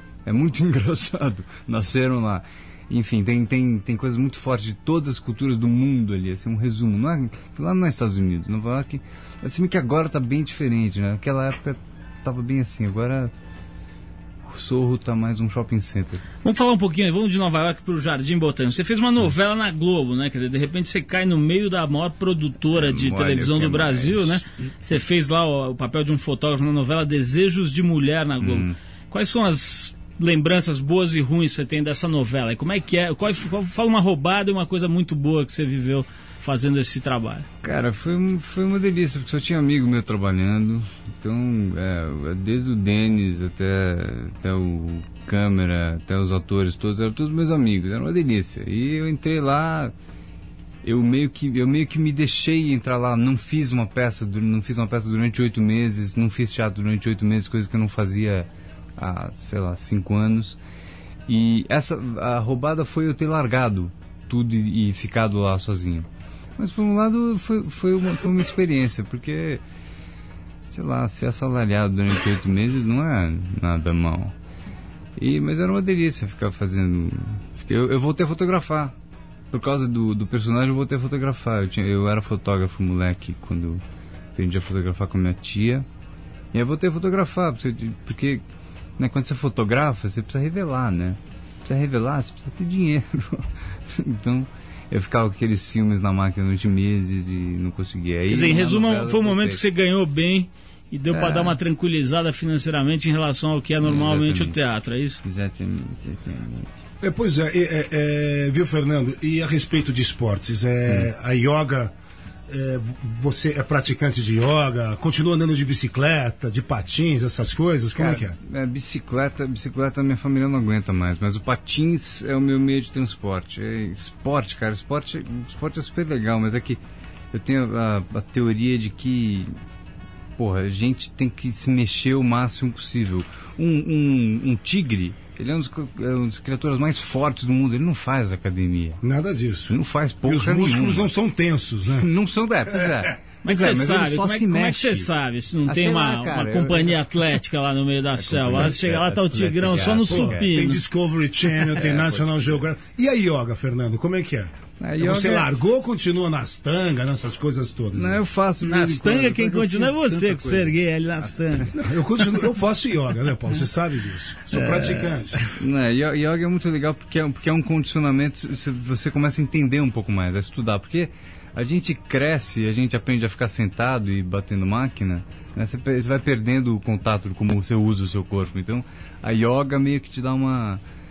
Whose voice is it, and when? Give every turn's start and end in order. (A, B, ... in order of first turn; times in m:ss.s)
0:00.2-0:13.3 A
0:14.4-0:16.2 A
0:16.4-0:37.5 B
0:22.7-0:24.4 A
0:28.4-0:28.8 A
0:37.6-0:49.9 A
0:50.8-1:00.6 A
1:01.3-1:09.6 A
1:10.7-1:14.4 A
1:15.2-1:18.9 A
1:19.5-1:23.8 A
1:24.4-1:25.9 A
1:26.5-1:28.4 A
1:29.0-1:39.6 A
1:38.3-1:45.2 B
1:41.1-1:41.6 A
1:43.8-1:44.6 A
1:45.2-1:46.7 A
1:47.0-1:51.9 C
1:52.5-1:58.4 C
1:58.0-2:06.8 A
2:07.3-2:09.5 A
2:10.4-2:19.0 A
2:19.0-2:19.7 C
2:19.6-2:21.1 A
2:20.2-2:22.1 C
2:21.9-2:25.1 A
2:23.4-2:30.8 B
2:25.6-2:27.2 A
2:28.2-2:30.5 A
2:30.1-2:38.2 C
2:31.7-2:32.6 A
2:34.8-2:35.5 A
2:37.9-2:40.8 A
2:38.6-2:41.7 B
2:41.7-2:45.4 C
2:44.5-2:45.1 B
2:45.6-3:00.8 A